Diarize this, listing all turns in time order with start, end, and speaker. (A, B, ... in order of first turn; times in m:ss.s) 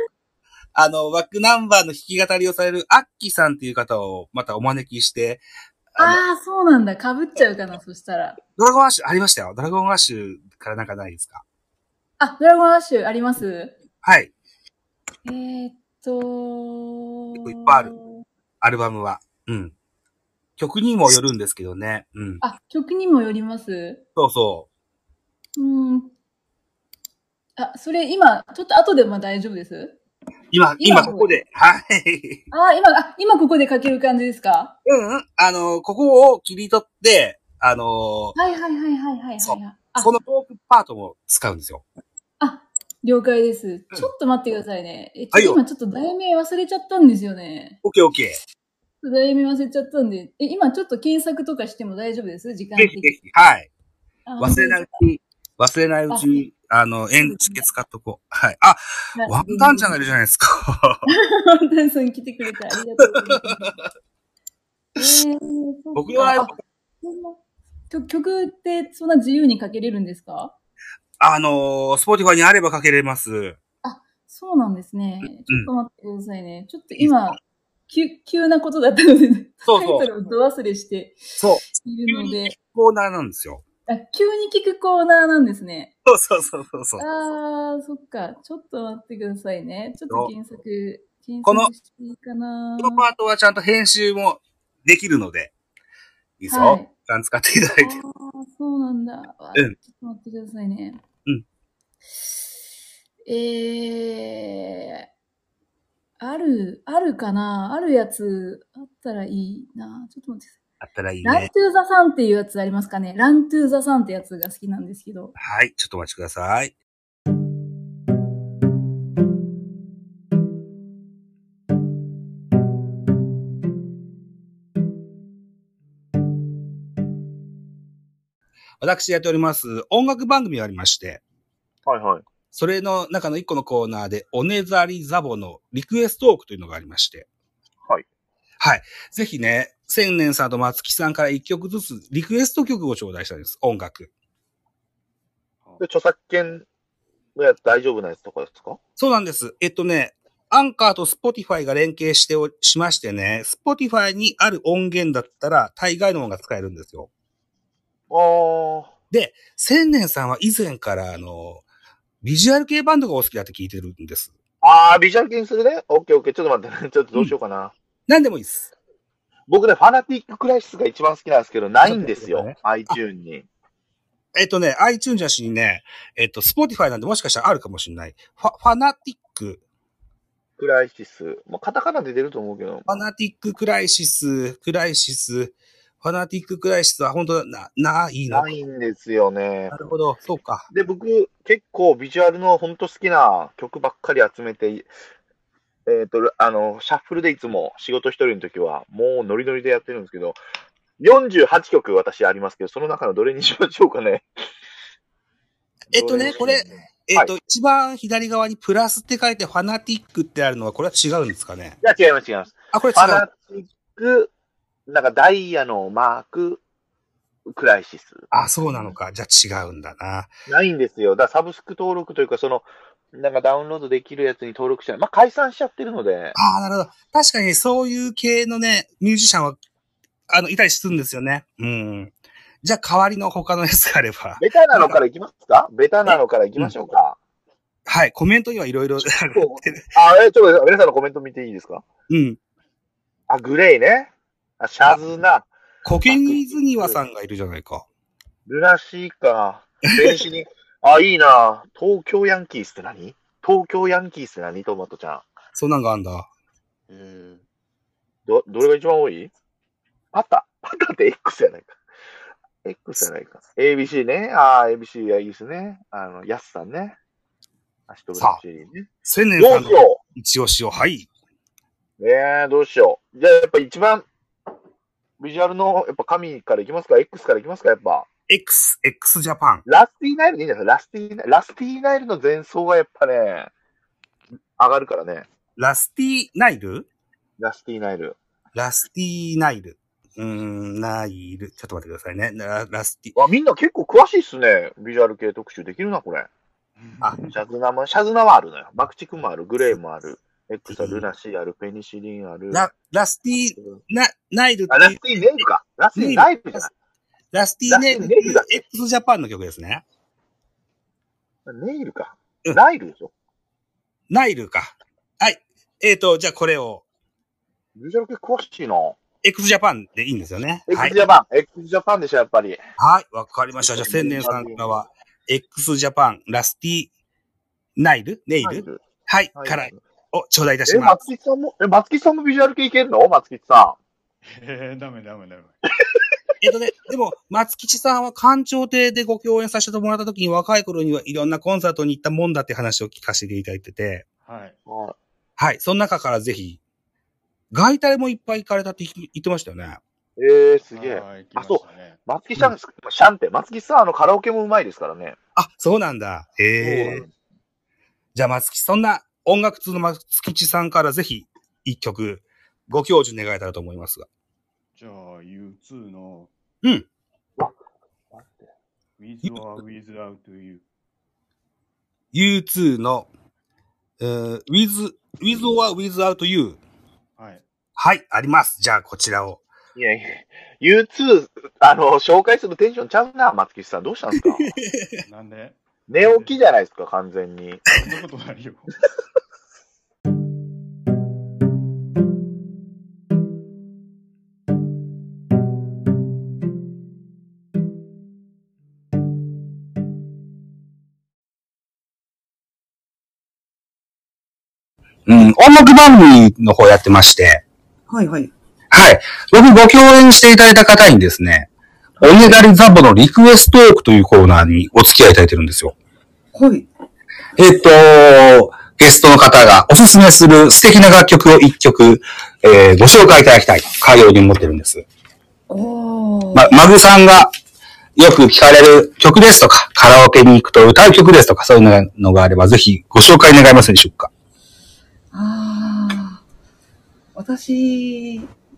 0:00.7-0:05.4 A
0:06.0-0:06.2 A
0:06.0-0:08.4 B
0:08.6-0:11.4 A
0:12.2-0:13.8 B
0:14.0-0:14.3 A
0:15.2-0:18.2 B
0:17.4-0:17.9 A
0:18.6-0:19.7 A
0:20.6-0:22.4 A
0:22.4-0:24.0 B
0:24.2-0:24.7 A
0:25.6-0:26.1 B
0:27.6-0:30.0 B
0:30.5-0:32.4 A
0:30.8-0:31.4 B
0:32.5-0:34.7 B
0:34.8-0:38.4 A
0:38.3-0:40.1 B
0:39.4-0:41.8 A
0:42.4-0:47.8 B
0:45.3-0:45.6 A
0:47.8-0:48.4 A
0:49.0-0:53.2 B
0:52.8-0:53.7 A
0:54.2-0:54.9 B
0:54.4-1:01.0 A
0:56.1-0:56.4 B
0:57.2-0:57.6 B
0:59.2-1:00.0 B
1:01.1-1:03.8 B
1:03.0-1:03.5 A
1:05.0-1:07.4 B
1:05.9-1:06.5 A
1:07.9-1:10.5 B
1:11.2-1:13.6 A
1:13.8-1:22.5 B
1:17.0-1:17.4 A
1:19.6-1:20.1 A
1:21.4-1:23.6 A
1:23.9-1:25.9 B
1:26.1-1:27.0 A
1:27.0-1:33.0 B
1:31.4-1:31.7 A
1:32.8-1:35.5 A
1:36.4-1:38.0 A
1:36.5-1:36.9 B
1:37.8-1:41.0 B
1:43.3-1:45.1 B
1:46.2-1:50.6 B
1:50.8-1:51.5 A
1:51.2-1:55.3 B
1:55.4-1:56.7 A
2:08.8-2:11.2 A
2:11.8-2:12.2 C
2:12.5-2:17.3 A
2:18.6-2:24.1 A
2:25.8-2:26.6 C
2:27.4-2:28.8 C
2:29.0-2:37.1 A
2:38.1-2:38.9 C
2:39.1-2:41.6 A
2:42.2-2:44.3 A
2:44.6-2:47.7 C
2:48.1-2:48.7 A
2:49.5-2:53.4 C
2:51.8-2:53.0 A
2:54.3-2:59.6 A
3:00.6-3:03.0 C
3:02.9-3:08.5 A
3:08.3-3:09.7 C
3:09.7-3:10.7 A
3:10.7-3:14.9 C
3:15.8-3:20.4 C
3:21.0-3:24.2 C
3:25.9-3:27.3 C
3:25.9-3:31.8 A
3:31.8-3:34.3 C
3:32.7-3:33.2 A
3:34.9-3:36.6 C
3:37.5-3:38.9 C
3:38.3-3:40.3 A
3:40.5-3:46.4 C
3:46.3-3:49.6 A
3:50.3-3:55.0 A
3:54.4-3:57.2 C
3:57.9-3:59.9 A
3:59.0-4:01.8 C
4:02.1-4:02.4 A
4:03.3-4:05.5 C
4:05.8-4:07.8 A
4:06.0-4:07.0 C
4:08.4-4:15.2 C
4:15.5-4:16.3 A
4:16.9-4:17.4 D
4:18.2-4:19.3 C
4:20.1-4:21.8 C
4:22.6-4:27.0 C
4:27.9-4:30.0 C
4:29.0-4:31.1 A
4:32.0-4:34.0 C
4:35.2-4:38.1 C
4:38.3-4:39.6 A
4:39.6-4:43.5 C
4:44.6-4:45.2 C
4:45.6-4:46.9 A
4:47.4-4:48.2 C
4:48.5-4:53.2 A
4:53.2-4:56.3 C
4:56.8-4:57.3 D
4:57.2-5:02.7 C
5:00.7-5:01.0 A
5:02.5-5:05.4 A
5:04.7-5:06.7 C
5:05.9-5:06.7 A
5:07.3-5:09.8 A
5:07.7-5:08.6 C
5:11.4-5:13.1 C
5:14.1-5:16.8 A
5:17.8-5:19.0 C
5:19.2-5:21.0 A
5:20.7-5:22.6 C
5:22.8-5:26.9 A
5:23.6-5:24.6 C
5:27.8-5:31.0 A
5:28.4-5:28.8 C
5:29.3-5:29.8 C
5:30.7-5:33.8 C
5:34.2-5:35.6 D
5:36.4-5:44.0 A
5:44.2-5:44.6 D
5:44.6-5:45.0 C
5:45.4-5:46.6 A
5:47.5-5:49.8 A
5:50.2-5:55.2 C
5:50.7-5:52.0 D
5:55.4-5:57.0 A
5:56.6-5:57.1 C
5:58.1-6:04.0 A
6:04.7-6:06.3 D
6:08.1-6:08.4 C
6:09.0-6:10.6 D
6:12.1-6:13.1 A
6:14.0-6:16.6 A
6:17.2-6:17.4 D
6:17.8-6:19.4 A
6:19.8-6:24.5 C
6:25.0-6:26.4 D
6:25.9-6:27.6 C
6:27.6-6:28.7 D
6:45.1-6:47.4 A
6:47.9-6:48.3 E
6:48.7-6:51.5 A
6:52.0-6:52.4 E
6:52.0-6:55.7 A
6:56.3-6:56.7 E
6:57.4-7:04.8 A
7:05.5-7:06.6 E
7:06.3-7:07.3 A
7:08.0-7:14.1 A
7:15.1-7:16.2 E
7:17.1-7:18.3 E